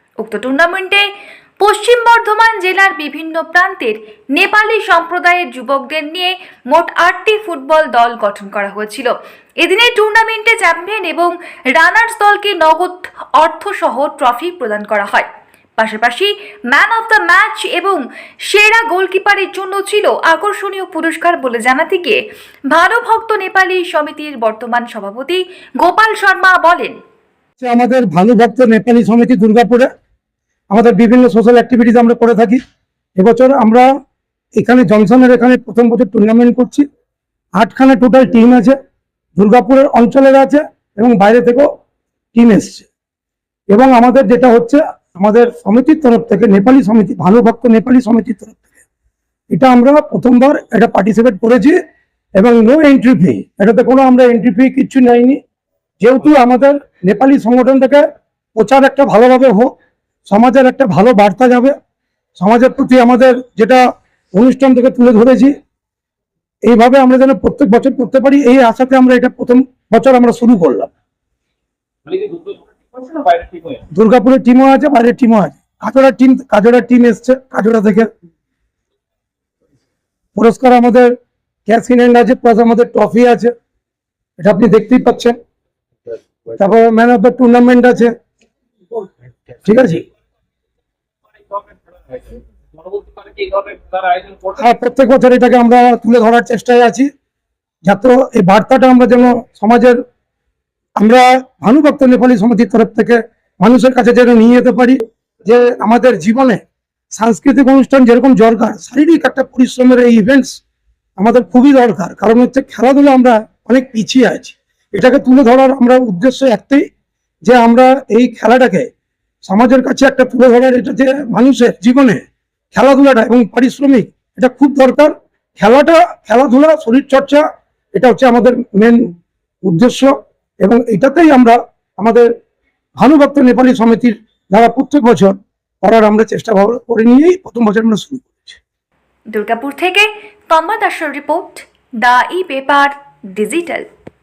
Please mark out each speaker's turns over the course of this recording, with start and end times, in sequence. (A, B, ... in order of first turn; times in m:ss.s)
0:00.2-0:01.0 A
0:01.6-0:09.1 A
0:09.6-0:27.0 A
0:27.6-0:29.9 B
0:30.7-0:32.6 B
0:33.2-0:33.9 B
0:34.6-0:36.8 B
0:37.5-0:38.8 B
0:39.4-0:41.7 B
0:42.3-0:42.8 B
0:43.7-0:48.7 B
0:49.5-0:51.8 B
0:52.3-0:55.4 B
0:56.0-0:59.7 B
1:00.2-1:01.7 B
1:02.4-1:05.5 B
1:06.6-1:10.9 B
1:12.0-1:13.8 C
1:13.9-1:18.1 B
1:20.3-1:21.1 B
1:21.7-1:23.5 B
1:24.4-1:25.4 B
1:26.6-1:28.1 B
1:29.6-1:30.0 B
1:31.4-1:34.6 C
1:34.6-1:37.1 B
1:37.8-1:40.0 B
1:41.0-1:50.6 B
1:51.2-1:56.8 B
1:57.4-1:58.9 B
1:59.4-2:07.4 B
2:07.9-2:09.1 B
2:09.6-2:12.3 B
2:13.0-2:18.6 B
2:19.3-2:23.8 A